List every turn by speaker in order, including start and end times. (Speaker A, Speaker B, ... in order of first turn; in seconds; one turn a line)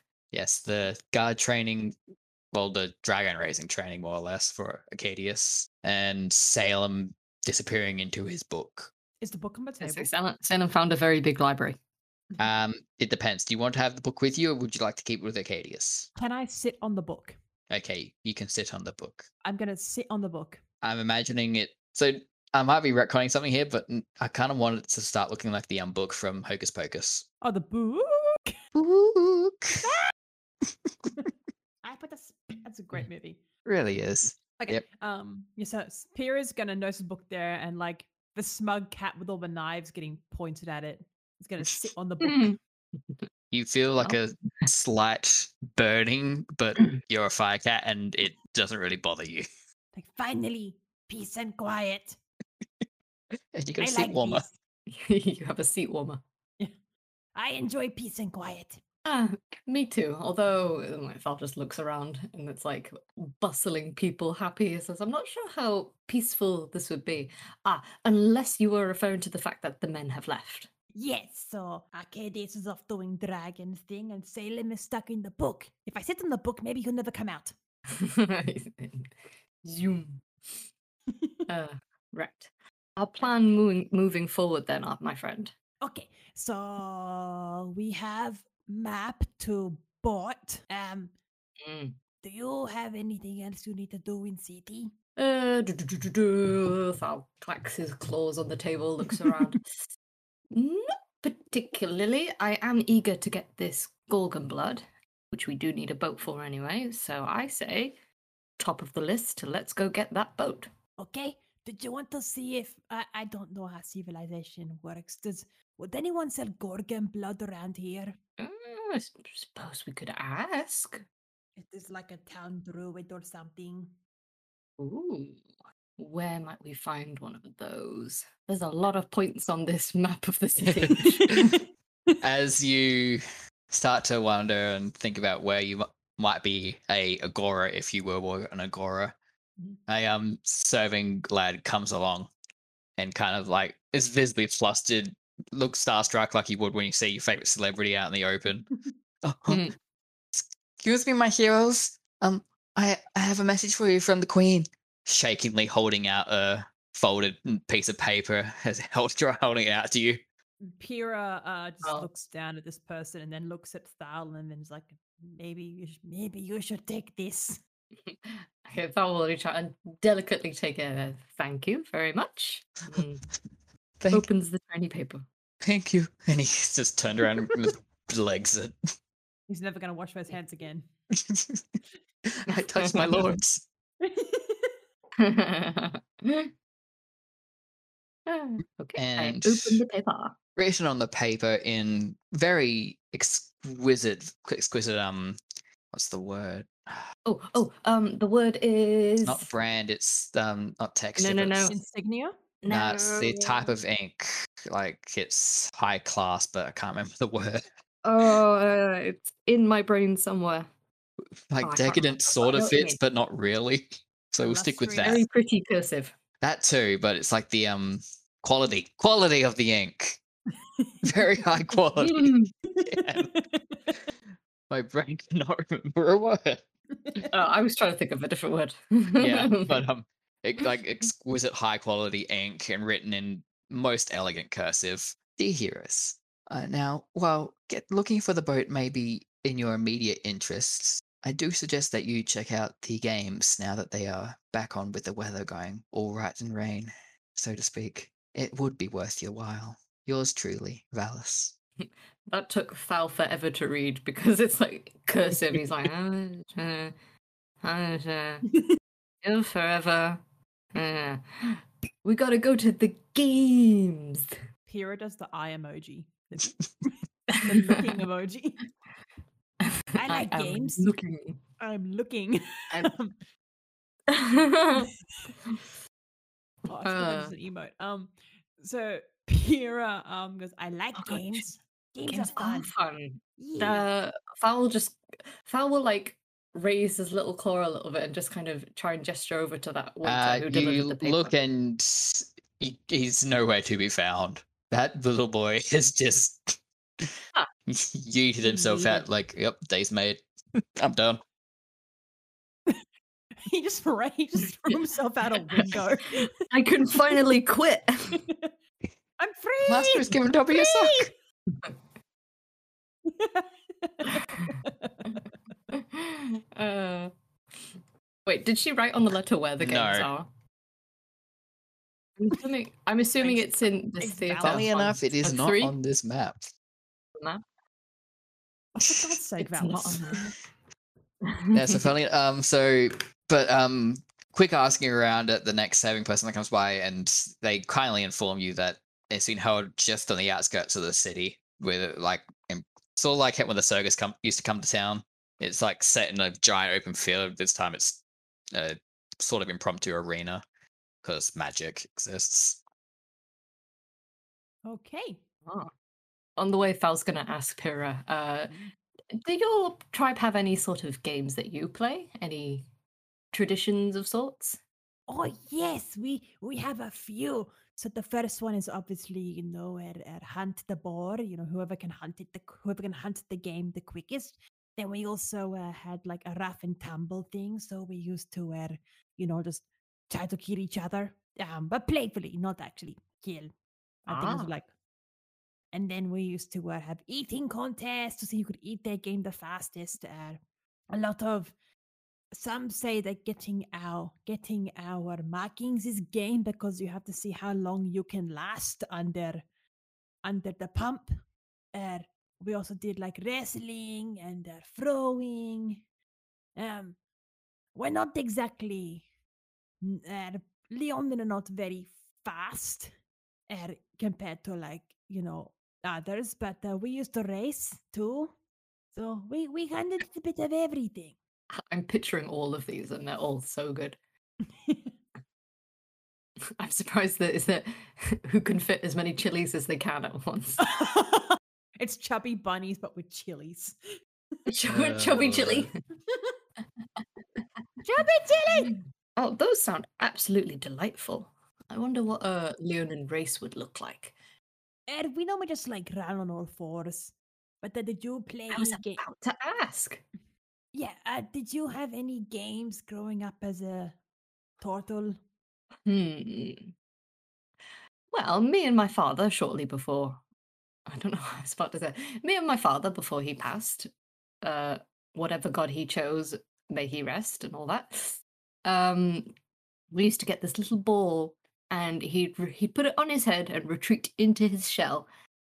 Speaker A: 0.3-1.9
Speaker A: 2.5-8.9
Speaker B: 9.2-10.1
Speaker C: 9.8-11.8
Speaker A: 12.4-16.1
Speaker B: 16.1-17.4
Speaker A: 17.7-19.3
Speaker B: 19.4-20.6
Speaker A: 20.8-27.2
Speaker B: 27.4-28.6
Speaker A: 28.7-29.8
Speaker B: 29.8-30.1
Speaker B: 31.8-33.4
Speaker A: 33.6-34.8
Speaker B: 34.6-42.5
Speaker C: 42.2-42.6
Speaker A: 43.5-49.5
Speaker B: 49.9-52.2
Speaker A: 53.5-54.4
Speaker B: 53.8-54.5
Speaker C: 54.9-56.2
Speaker B: 57.3-58.8
Speaker C: 59.0-70.7
Speaker B: 70.9-77.5
Speaker C: 77.9-80.7
Speaker B: 81.1-81.4
Speaker C: 81.5-85.5
Speaker B: 85.8-91.1
Speaker C: 91.6-92.0
Speaker B: 92.2-94.9
Speaker C: 95.2-99.8
Speaker C: 100.5-108.0
Speaker C: 108.6-110.7
Speaker B: 111.0-118.2
Speaker C: 118.4-121.0
Speaker B: 121.5-123.9
Speaker C: 124.8-125.4
Speaker C: 126.0-131.5
Speaker A: 130.7-131.6
Speaker B: 130.9-131.5
Speaker A: 132.2-139.2
Speaker A: 139.9-142.3
Speaker A: 143.0-148.7
Speaker A: 149.2-149.7
Speaker C: 149.5-149.7
Speaker A: 150.3-160.2
Speaker B: 160.6-167.6
Speaker C: 161.8-162.1
Speaker C: 168.1-173.2
Speaker A: 174.0-174.3
Speaker C: 174.1-175.2
Speaker A: 175.6-178.8
Speaker B: 179.5-180.9
Speaker A: 181.1-183.6
Speaker C: 182.5-183.3
Speaker B: 184.0-184.7
Speaker C: 185.2-186.5
Speaker C: 188.2-190.3
Speaker A: 188.9-189.8
Speaker A: 190.6-195.4
Speaker A: 195.9-197.0
Speaker C: 197.2-199.5
Speaker A: 199.2-201.8
Speaker C: 201.2-201.8
Speaker B: 201.7-202.3
Speaker C: 202.6-203.7
Speaker A: 202.7-207.6
Speaker C: 208.0-210.7
Speaker A: 211.5-215.2
Speaker C: 211.6-213.0
Speaker B: 214.4-215.2
Speaker C: 215.0-216.1
Speaker A: 216.4-220.2
Speaker A: 221.0-223.3
Speaker C: 222.0-222.5
Speaker B: 223.0-223.8
Speaker A: 224.7-226.6
Speaker C: 227.2-229.8
Speaker A: 229.2-251.5
Speaker C: 251.8-256.9
Speaker C: 257.6-258.5
Speaker B: 258.5-258.8
Speaker C: 259.2-260.2
Speaker C: 260.7-264.4
Speaker B: 264.7-268.6
Speaker C: 267.3-268.0
Speaker C: 269.6-271.4
Speaker B: 269.9-270.9
Speaker B: 271.6-273.1
Speaker C: 272.7-272.9
Speaker C: 274.1-274.9
Speaker B: 274.8-275.3
Speaker C: 276.7-277.3
Speaker B: 276.7-282.7
Speaker C: 280.9-281.5
Speaker C: 282.1-291.3
Speaker B: 283.4-283.9
Speaker A: 290.0-296.6
Speaker A: 297.7-300.2
Speaker C: 298.4-299.1
Speaker A: 300.8-301.2
Speaker B: 303.4-306.4
Speaker C: 305.3-308.2
Speaker B: 308.1-308.5
Speaker B: 309.2-311.1
Speaker A: 309.7-311.1
Speaker B: 313.1-315.2
Speaker C: 315.7-317.7
Speaker C: 318.2-320.3
Speaker A: 319.6-320.1
Speaker C: 322.2-325.7
Speaker B: 323.2-324.9
Speaker A: 324.4-326.5
Speaker C: 327.1-327.4
Speaker B: 328.8-330.3
Speaker C: 329.4-330.3
Speaker C: 331.2-331.9
Speaker A: 331.5-350.4
Speaker A: 351.0-352.6
Speaker B: 354.6-355.2
Speaker C: 355.4-355.7
Speaker C: 356.4-358.6
Speaker C: 359.1-362.6
Speaker C: 363.3-364.6
Speaker B: 365.1-383.5
Speaker B: 384.1-384.7
Speaker C: 384.1-384.5
Speaker B: 385.7-390.4
Speaker B: 390.9-391.5
Speaker B: 392.3-399.4
Speaker B: 400.2-401.1
Speaker B: 401.7-405.8
Speaker B: 406.6-407.0
Speaker B: 407.7-409.0
Speaker B: 409.8-412.9
Speaker B: 413.5-418.3
Speaker B: 418.9-421.1
Speaker C: 421.5-424.0
Speaker B: 424.6-424.9
Speaker C: 426.6-430.6
Speaker B: 430.6-433.8
Speaker C: 434.5-435.7
Speaker A: 434.7-435.7
Speaker C: 436.9-437.4
Speaker B: 437.8-438.8
Speaker C: 438.5-444.1
Speaker B: 444.9-449.0
Speaker C: 448.5-450.0
Speaker B: 450.7-453.9
Speaker B: 454.6-455.2
Speaker C: 455.9-456.7
Speaker C: 458.1-460.2
Speaker C: 460.9-463.9
Speaker C: 464.4-469.3
Speaker C: 469.9-475.1